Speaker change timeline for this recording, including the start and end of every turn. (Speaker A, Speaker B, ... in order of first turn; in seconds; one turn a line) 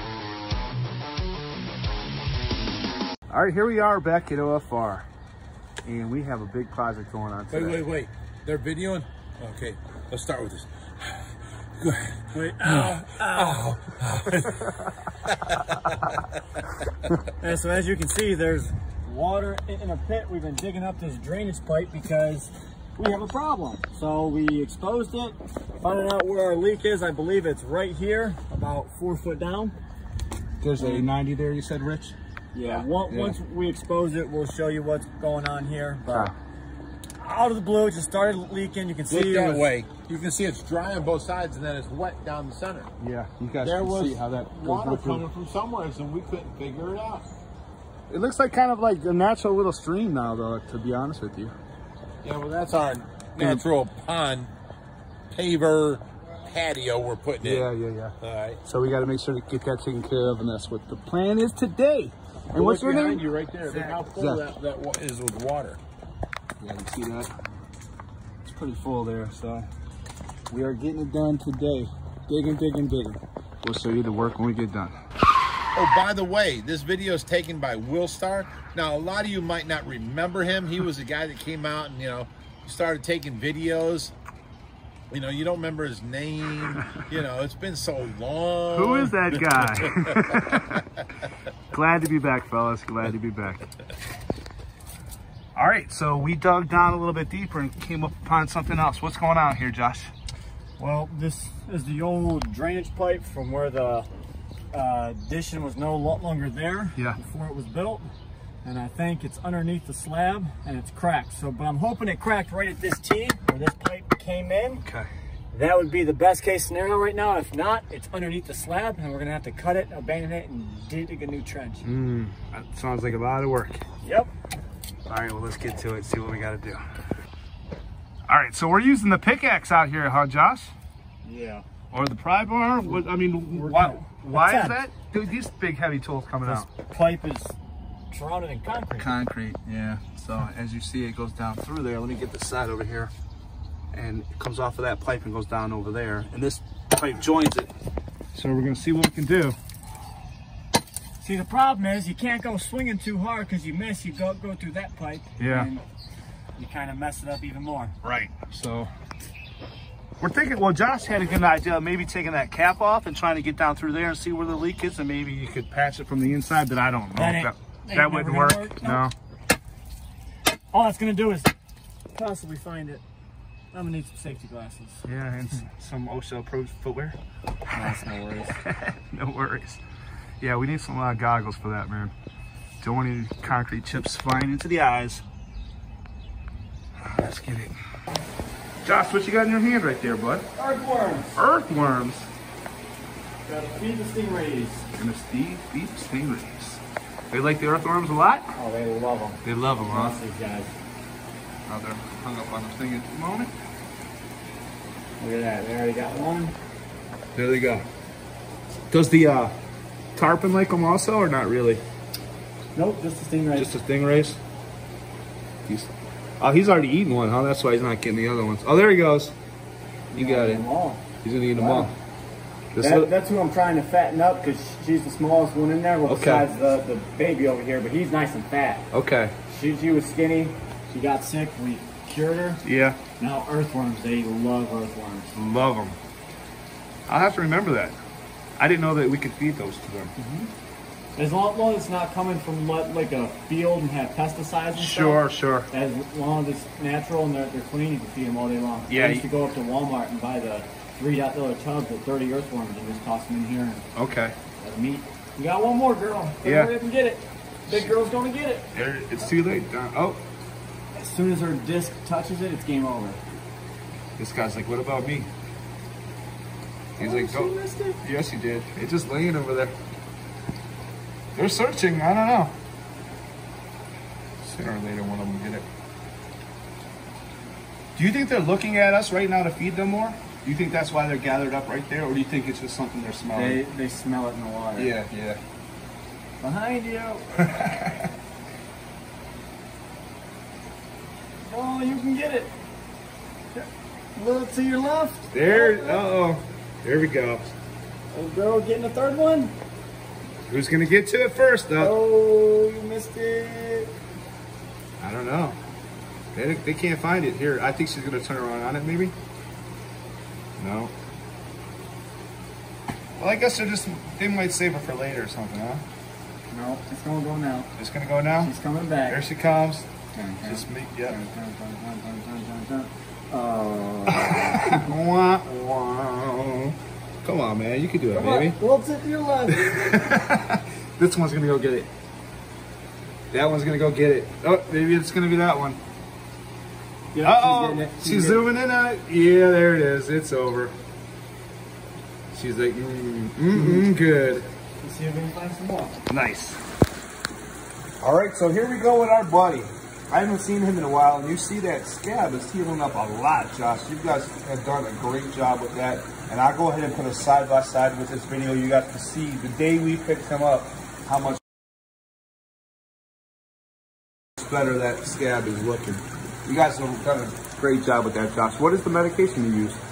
Speaker A: 3.3-5.1
Speaker A: 5.8-7.8
Speaker B: 7.5-11.2
Speaker B: 11.8-14.7
Speaker C: 12.3-13.6
Speaker B: 15.5-15.7
Speaker C: 17.4-29.8
Speaker A: 30.6-32.2
Speaker C: 30.8-31.1
Speaker C: 32.5-36.3
Speaker A: 32.7-33.4
Speaker A: 36.1-36.3
Speaker C: 37.2-39.7
Speaker B: 39.1-42.9
Speaker A: 43.0-45.2
Speaker B: 43.6-47.4
Speaker A: 48.1-51.6
Speaker B: 52.2-54.5
Speaker A: 53.4-53.7
Speaker B: 55.3-57.7
Speaker A: 57.4-64.5
Speaker B: 58.2-58.6
Speaker B: 62.5-65.8
Speaker A: 66.6-67.3
Speaker A: 68.4-69.7
Speaker A: 70.5-75.0
Speaker B: 75.7-84.1
Speaker B: 85.1-90.1
Speaker A: 88.7-90.9
Speaker A: 91.7-93.7
Speaker A: 95.6-100.1
Speaker C: 100.8-104.1
Speaker C: 104.7-108.1
Speaker C: 108.7-114.8
Speaker A: 114.8-115.1
Speaker C: 115.5-121.8
Speaker A: 121.8-123.8
Speaker C: 124.0-124.3
Speaker A: 125.1-126.8
Speaker A: 128.3-130.7
Speaker C: 131.2-131.7
Speaker A: 131.9-136.7
Speaker C: 133.5-134.8
Speaker C: 136.4-137.6
Speaker C: 138.1-139.1
Speaker A: 139.0-143.1
Speaker A: 143.9-147.7
Speaker A: 148.3-149.6
Speaker C: 151.2-155.8
Speaker A: 155.4-155.7
Speaker C: 156.6-158.0
Speaker A: 158.0-158.9
Speaker A: 160.2-169.1
Speaker C: 167.2-169.1
Speaker C: 170.7-171.5
Speaker C: 172.1-173.0
Speaker C: 173.7-175.1
Speaker A: 175.1-179.8
Speaker C: 177.7-178.6
Speaker A: 180.4-182.1
Speaker A: 182.8-185.2
Speaker A: 187.1-187.8
Speaker A: 188.8-190.5
Speaker C: 190.6-191.4
Speaker A: 191.4-192.3
Speaker C: 193.5-194.9
Speaker A: 195.0-198.5
Speaker C: 198.6-200.7
Speaker A: 199.4-200.2
Speaker A: 201.7-203.5
Speaker C: 205.2-206.5
Speaker A: 207.3-207.9
Speaker A: 208.9-209.6
Speaker A: 210.2-211.8
Speaker C: 212.8-213.7
Speaker A: 213.6-214.4
Speaker A: 215.7-219.3
Speaker C: 220.1-221.9
Speaker A: 220.2-220.6
Speaker A: 221.2-221.9
Speaker A: 222.7-223.1
Speaker C: 222.8-228.9
Speaker A: 226.1-226.5
Speaker A: 228.9-229.3
Speaker C: 229.5-232.6
Speaker A: 232.6-233.0
Speaker C: 233.2-235.4
Speaker A: 235.3-236.0
Speaker A: 237.1-238.0
Speaker A: 238.6-240.1
Speaker C: 240.2-240.5
Speaker C: 241.2-253.9
Speaker A: 244.8-245.7
Speaker A: 248.9-249.2
Speaker A: 254.0-254.4
Speaker C: 254.6-258.7
Speaker A: 256.4-256.7
Speaker A: 258.7-260.2
Speaker C: 260.9-263.2
Speaker A: 264.2-265.3
Speaker C: 267.0-268.0
Speaker A: 267.0-269.8
Speaker A: 271.4-272.6
Speaker A: 274.4-275.7
Speaker A: 278.0-283.6
Speaker C: 283.3-284.9
Speaker A: 284.8-285.4
Speaker C: 286.4-287.4
Speaker A: 287.4-288.1
Speaker C: 291.4-292.6
Speaker C: 293.5-296.0
Speaker A: 295.3-297.5
Speaker C: 298.1-299.5
Speaker A: 300.5-301.9
Speaker C: 301.8-303.9
Speaker A: 305.0-305.6
Speaker A: 306.3-309.2
Speaker A: 310.6-310.9
Speaker A: 313.2-315.8
Speaker C: 316.5-317.7
Speaker A: 317.8-318.5
Speaker C: 318.4-319.2
Speaker A: 319.1-319.9
Speaker C: 320.1-324.8
Speaker A: 320.4-321.2
Speaker A: 324.1-328.6
Speaker C: 328.1-330.1
Speaker A: 329.5-331.9
Speaker A: 333.3-335.8
Speaker C: 337.1-338.4
Speaker A: 337.2-340.8
Speaker A: 342.3-344.5
Speaker C: 343.5-343.9
Speaker C: 344.8-346.0
Speaker A: 346.1-346.6
Speaker A: 348.0-361.4
Speaker A: 364.4-369.8